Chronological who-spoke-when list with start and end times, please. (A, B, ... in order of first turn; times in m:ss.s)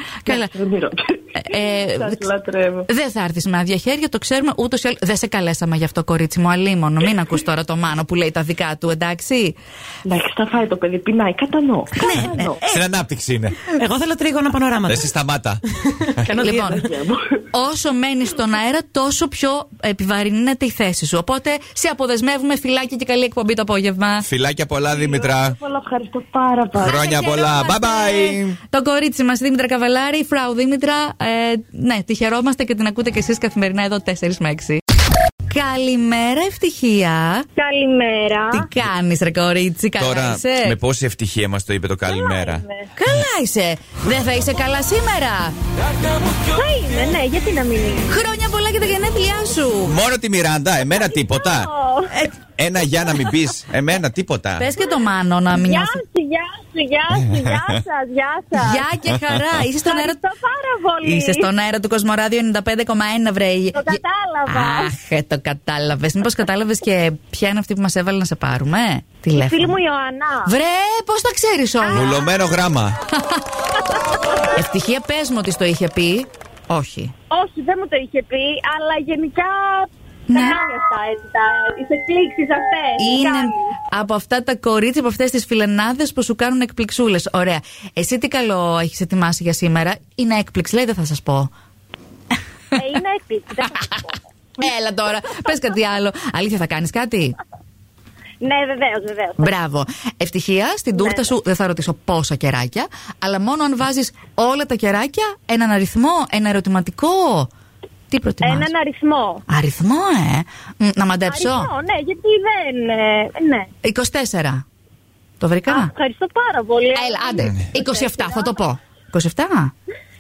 0:00.2-0:00.5 A
0:00.3-0:02.9 B
0:01.4-0:02.3 A
0:02.9-0:09.6 A
0:10.1-0:12.6 B
0:12.0-0:12.8 A
0:12.2-0:13.6 C
0:13.8-0:15.1 D
0:14.9-0:15.6 C
0:16.0-0:16.9 D
0:16.2-0:17.4 B
0:16.4-0:16.8 A
0:17.5-0:24.3 A
0:24.2-0:25.6 C
0:24.9-0:27.1 B
0:26.8-0:34.8 A
0:26.8-0:28.6 C
0:35.5-0:37.5 A
0:37.6-0:38.7 E
0:38.5-0:40.8 A
0:40.0-0:42.6 C
0:42.1-0:42.9 E
0:43.0-0:45.5 A
0:46.5-0:48.2 E
0:48.1-0:50.0 A
0:49.8-0:51.7 C
0:51.2-0:52.1 E
0:52.6-0:54.7 C
0:54.6-0:56.0 A
0:55.5-0:58.8 E
0:57.1-0:57.8 C
0:58.6-1:00.2 A
0:59.8-1:01.5 E
1:01.0-1:09.8 A
1:03.7-1:04.9 E
1:09.3-1:10.5 E
1:10.5-1:12.2 A
1:11.9-1:13.0 C
1:14.3-1:17.1 A
1:17.3-1:23.6 E
1:20.3-1:20.6 A
1:23.0-1:31.5 A
1:32.8-1:34.2 E
1:34.6-1:37.4 A
1:38.4-1:39.5 E
1:39.4-1:47.5 A
1:41.0-1:41.3 E
1:48.1-1:48.7 A
1:48.4-1:49.4 E
1:49.5-1:51.7 A
1:51.3-1:53.7 E
1:53.8-1:54.6 A
1:55.4-1:55.9 A
1:55.7-1:58.6 E
1:57.0-1:59.7 A